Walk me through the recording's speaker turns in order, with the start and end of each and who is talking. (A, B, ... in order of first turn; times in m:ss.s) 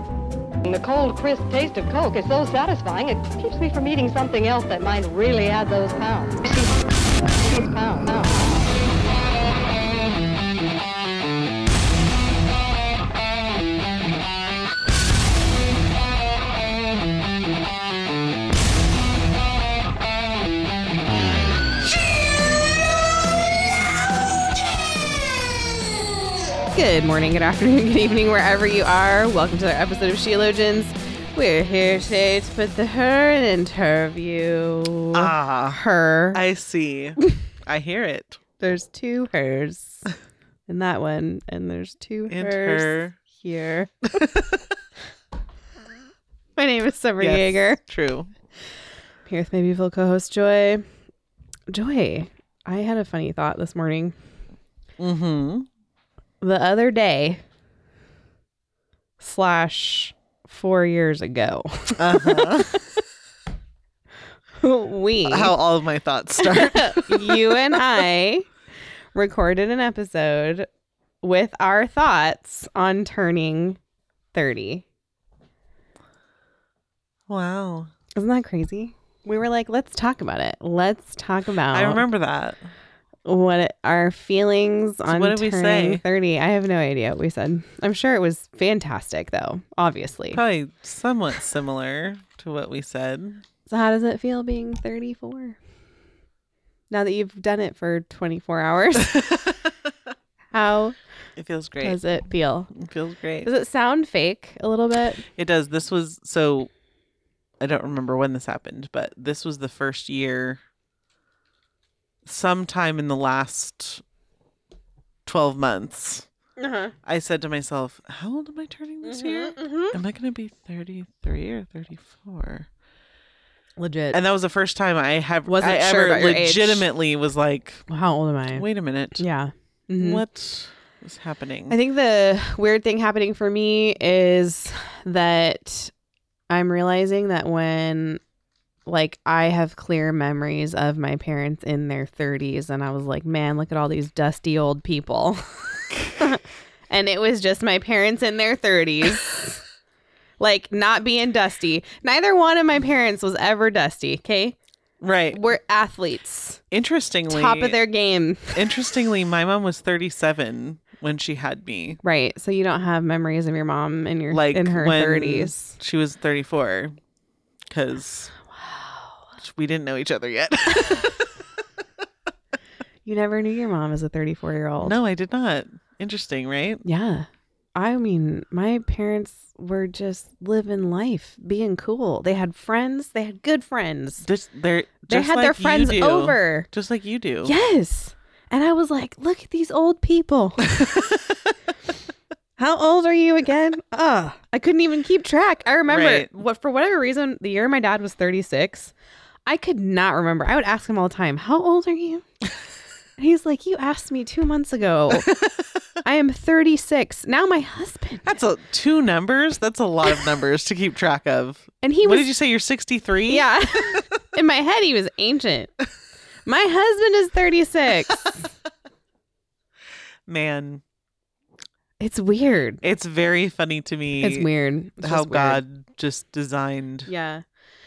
0:00.6-0:06.7 A
0:07.2-0:08.6 A
0:26.7-0:36.4 B
0:35.1-0:35.8 C
0:36.3-0:38.4 C
0:38.6-0:40.1 B
0:40.7-0:43.9 B
0:42.3-0:43.2 C
0:44.1-0:44.6 C
0:46.6-0:47.8 B
0:47.2-0:48.3 C
0:49.3-0:50.8 B
0:51.7-0:54.2 B
0:55.0-0:55.7 C
0:56.4-0:57.4 B
0:59.2-1:02.8 B
1:02.0-1:02.8 C
1:04.6-1:05.5 B
1:05.3-1:07.8 C
1:06.4-1:08.5 B
1:09.2-1:10.7 B
1:11.2-1:13.8 B
1:14.3-1:14.8 B
1:17.3-1:17.9 C
1:18.2-1:22.0 B
1:21.7-1:22.6 C
1:23.3-1:30.4 B
1:25.1-1:26.0 C
1:30.3-1:33.4 C
1:33.7-1:35.6 B
1:36.9-1:39.3 B
1:40.5-1:41.0 B
1:41.4-1:42.0 C
1:41.8-1:42.7 B
1:42.8-1:43.5 C
1:43.4-1:45.2 B
1:45.4-1:46.7 C
1:47.6-1:50.6 C
1:52.2-1:54.0 C
1:55.3-1:56.3 C
1:56.6-1:56.9 B
1:57.0-2:02.7 C
1:59.0-2:00.0 B
2:03.8-2:04.2 B
2:04.1-2:07.8 C
2:05.5-2:06.9 B
2:07.9-2:08.6 B
2:08.5-2:09.2 C
2:09.2-2:10.2 B
2:10.0-2:11.8 C
2:11.7-2:15.9 B
2:16.5-2:18.2 B
2:18.9-2:25.4 B
2:26.1-2:29.6 B
2:30.4-2:34.6 B
2:35.0-2:35.4 C
2:35.3-2:36.6 B
2:36.7-2:37.8 C
2:37.3-2:38.7 B
2:38.5-2:42.0 C
2:42.0-2:45.8 B
2:44.3-2:47.0 C
2:47.7-2:48.3 C
2:48.5-2:49.2 B
2:49.4-2:51.3 C
2:53.0-2:55.0 B
2:54.8-2:56.8 C
2:56.8-3:04.2 B
3:04.2-3:07.5 C
3:05.1-3:06.7 B
3:07.4-3:10.7 B
3:10.8-3:11.2 C
3:12.6-3:18.9 B
3:15.9-3:16.3 C
3:19.5-3:22.3 B
3:23.2-3:25.3 B
3:25.3-3:25.5 C
3:26.0-3:28.3 B
3:28.2-3:34.0 C
3:31.8-3:32.3 B
3:33.3-3:35.7 B
3:36.5-3:38.4 B
3:40.3-3:40.8 C
3:42.0-3:42.8 B
3:42.8-3:44.5 C
3:44.2-3:45.6 B
3:45.0-3:47.1 C
3:47.1-3:47.4 B